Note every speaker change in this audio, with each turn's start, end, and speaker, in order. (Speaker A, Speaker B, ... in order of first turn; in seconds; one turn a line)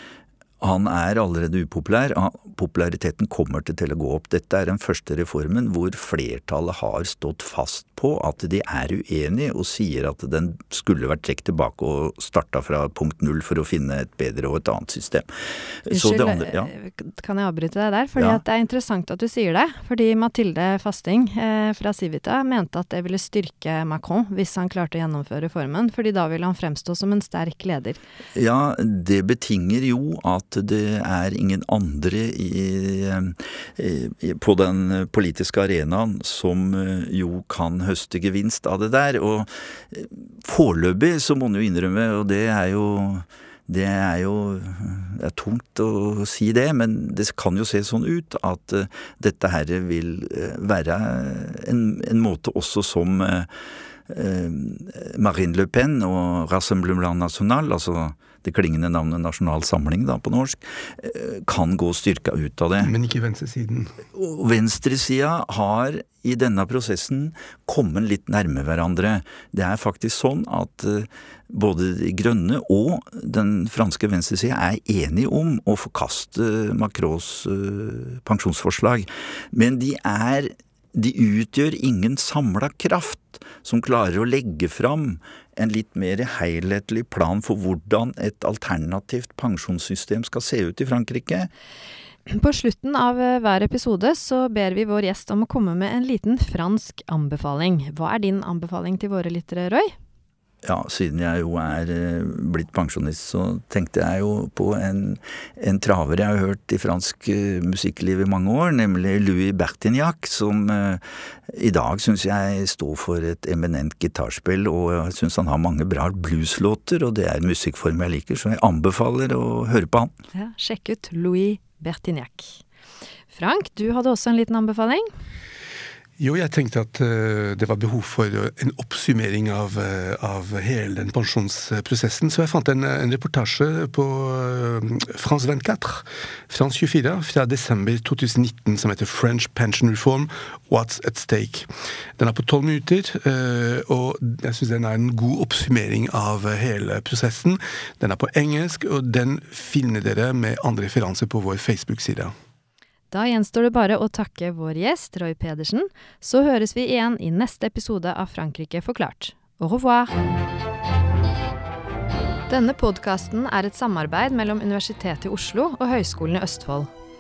Speaker A: 0.6-16.7
Speaker B: 15.9-28.0
Speaker A: 18.2-18.4
Speaker A: 28.3-53.5
Speaker A: 54.1-62.9
Speaker C: 62.8-64.0
Speaker A: 64.1-91.5
Speaker B: 92.3-99.9
Speaker A: 100.6-120.1
Speaker B: 120.3-122.6
Speaker B: 123.3-125.1
Speaker C: 126.2-152.3
Speaker B: 153.1-160.1
Speaker B: 162.5-166.9